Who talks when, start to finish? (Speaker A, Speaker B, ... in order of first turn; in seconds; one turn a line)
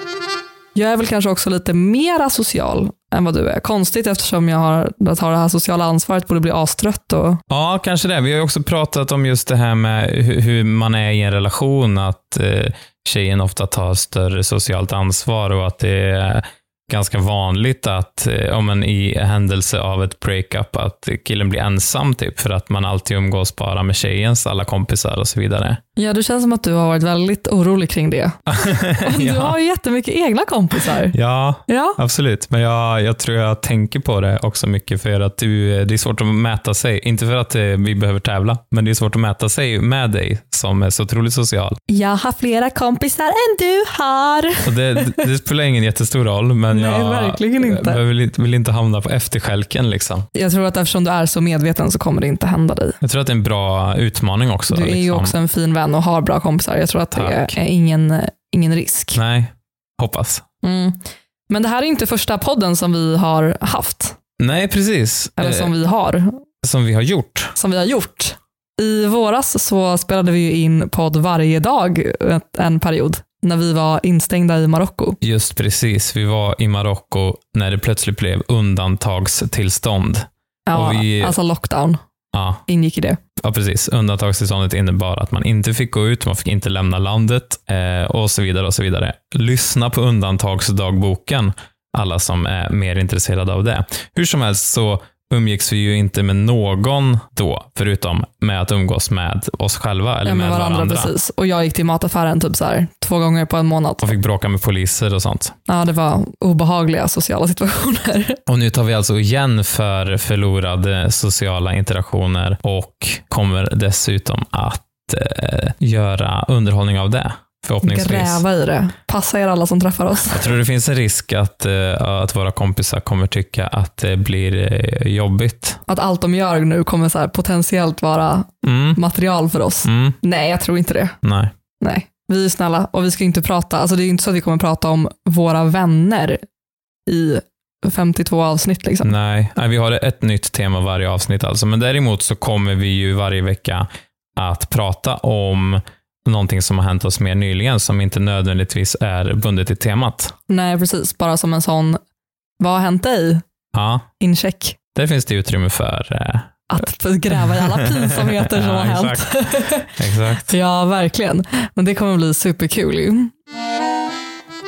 Speaker A: 0.8-7.4
Speaker B: 7.5-25.8
Speaker A: 26.0-28.4
Speaker B: 28.5-29.6
Speaker A: 28.9-31.1
Speaker B: 31.1-41.8
Speaker A: 31.7-32.0
Speaker A: 41.9-45.2
Speaker B: 44.6-50.3
Speaker A: 46.7-48.0
Speaker A: 50.3-53.0
Speaker B: 53.0-55.4
Speaker A: 54.7-59.2
Speaker B: 57.1-57.5
Speaker B: 59.1-60.4
Speaker A: 60.6-61.0
Speaker A: 61.5-64.2
Speaker B: 64.4-65.7
Speaker A: 65.4-66.3
Speaker B: 66.6-67.5
Speaker A: 67.6-75.2
Speaker B: 75.2-81.3
Speaker A: 80.7-82.0
Speaker B: 82.3-82.6
Speaker A: 82.7-83.2
Speaker B: 83.4-101.1
Speaker A: 100.2-104.1
Speaker B: 104.0-105.5
Speaker A: 105.7-108.4
Speaker B: 108.5-118.4
Speaker A: 117.8-120.5
Speaker B: 120.3-125.8
Speaker A: 125.9-131.2
Speaker B: 128.6-129.0
Speaker B: 129.8-130.2
Speaker B: 131.2-131.5
Speaker A: 131.8-136.4
Speaker A: 137.1-139.1
Speaker B: 139.0-150.3
Speaker A: 150.5-152.0
Speaker A: 152.6-153.4
Speaker B: 153.7-154.1
Speaker A: 154.2-154.8
Speaker B: 155.0-156.5
Speaker A: 156.7-163.3
Speaker B: 157.8-159.3
Speaker B: 160.0-160.6